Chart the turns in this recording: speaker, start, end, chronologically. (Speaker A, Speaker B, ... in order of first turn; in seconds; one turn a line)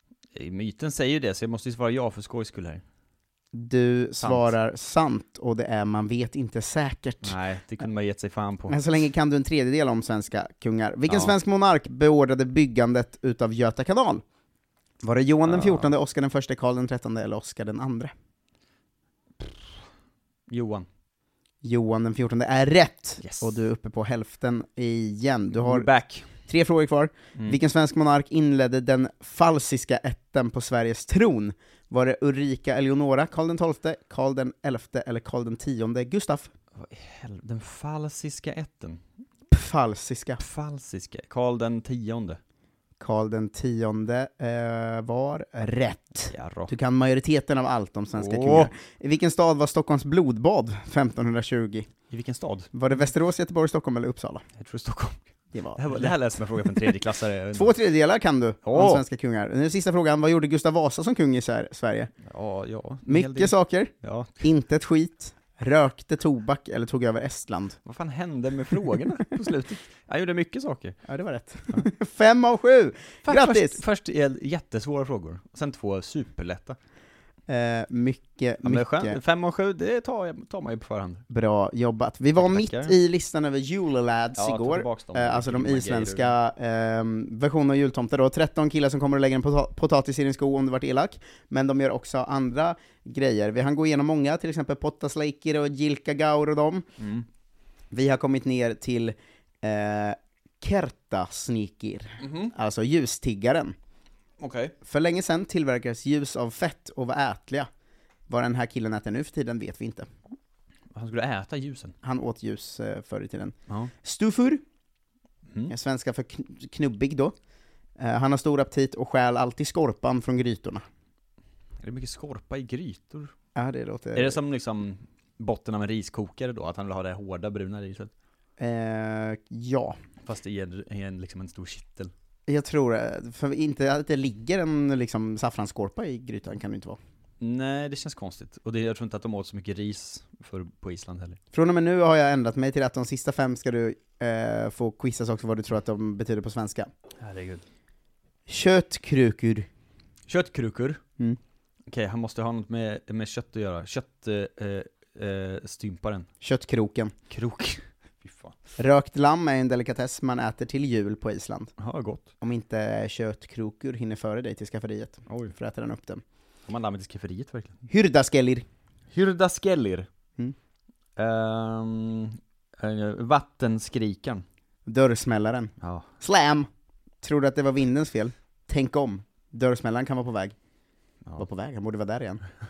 Speaker A: 0.3-2.8
Speaker B: 3.5-7.3
Speaker A: 4.2-4.5
Speaker A: 7.2-8.8
Speaker B: 8.7-14.2
Speaker A: 11.1-11.3
Speaker B: 15.0-18.1
Speaker A: 15.4-15.9
Speaker A: 20.5-20.9
Speaker B: 21.6-25.9
Speaker A: 23.2-23.5
Speaker A: 25.5-26.3
Speaker B: 26.4-36.5
Speaker A: 36.8-39.0
Speaker B: 39.5-40.4
Speaker A: 40.4-42.4
Speaker B: 43.0-51.9
Speaker A: 46.3-46.7
Speaker A: 48.1-48.7
Speaker A: 52.1-52.7
Speaker B: 52.7-54.4
Speaker A: 54.6-55.2
Speaker B: 55.5-56.1
Speaker A: 55.8-57.8
Speaker B: 56.6-56.9
Speaker B: 57.5-62.1
Speaker A: 58.6-59.0
Speaker A: 62.2-64.4
Speaker B: 63.0-67.8
Speaker A: 67.8-71.0
Speaker B: 71.0-73.8
Speaker A: 73.2-76.8
Speaker B: 77.5-79.2
Speaker A: 78.6-81.2
Speaker B: 81.3-96.8
Speaker A: 82.3-83.0
Speaker A: 84.3-86.3
Speaker A: 97.0-97.2
Speaker B: 97.9-103.7
Speaker A: 102.2-102.5
Speaker A: 104.4-104.7
Speaker B: 104.8-107.7
Speaker B: 108.3-110.1
Speaker A: 110.9-111.9
Speaker B: 112.0-114.6
Speaker B: 115.7-117.3
Speaker B: 118.0-120.8
Speaker A: 121.8-123.3
Speaker B: 123.5-124.4
Speaker A: 124.1-128.1
Speaker B: 128.6-129.9
Speaker A: 130.2-132.1
Speaker B: 132.5-137.0
Speaker A: 137.4-141.4
Speaker B: 141.5-146.9
Speaker A: 147.2-147.6
Speaker B: 148.5-149.7
Speaker A: 150.3-151.0
Speaker A: 151.9-156.2
Speaker B: 156.4-157.1
Speaker A: 157.3-158.5
Speaker B: 158.8-161.7
Speaker A: 161.8-162.3
Speaker B: 162.4-166.2
Speaker A: 165.3-165.5
Speaker A: 166.7-167.8
Speaker B: 167.9-168.7
Speaker A: 169.1-170.1
Speaker A: 171.2-174.4
Speaker B: 174.8-176.7
Speaker A: 175.8-176.1
Speaker B: 177.2-180.5
Speaker B: 181.4-182.4